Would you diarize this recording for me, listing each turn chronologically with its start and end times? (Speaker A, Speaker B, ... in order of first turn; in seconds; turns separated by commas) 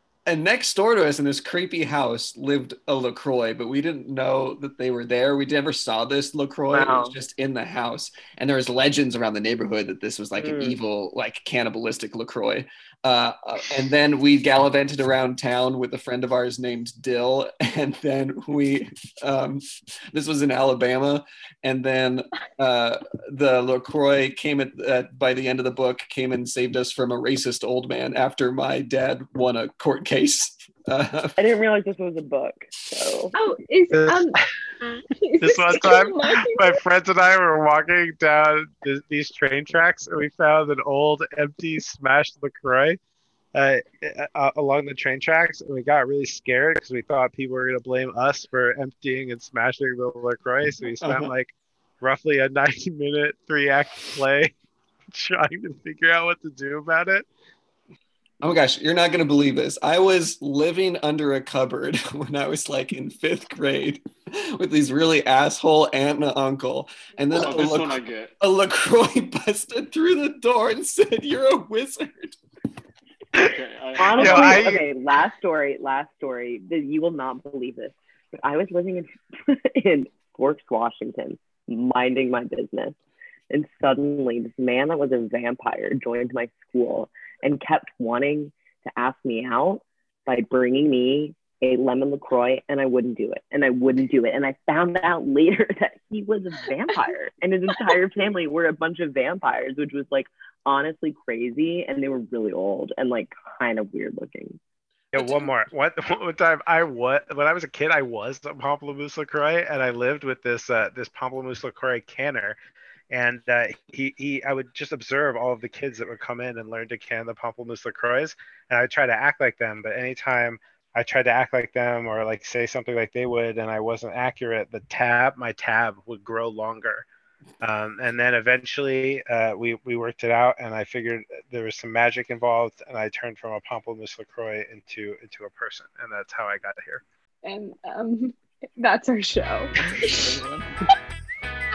Speaker A: 0.2-31.4, Speaker B: 6.7-7.2, Speaker B: 10.4-10.8, Speaker B: 31.4-33.3, Speaker C: 33.3-36.8, Speaker D: 33.9-34.4, Speaker D: 35.4-43.0, Speaker D: 43.5-54.5, Speaker A: 50.9-51.3, Speaker D: 55.1-57.3, Speaker A: 58.4-64.0, Speaker A: 64.5-72.4, Speaker E: 67.3-68.3, Speaker E: 73.4-74.7, Speaker B: 74.0-83.0, Speaker D: 74.1-74.8, Speaker B: 83.5-104.6, Speaker D: 105.1-112.6, Speaker A: 105.1-105.5, Speaker D: 113.1-127.1, Speaker D: 127.6-137.0, Speaker C: 137.4-140.3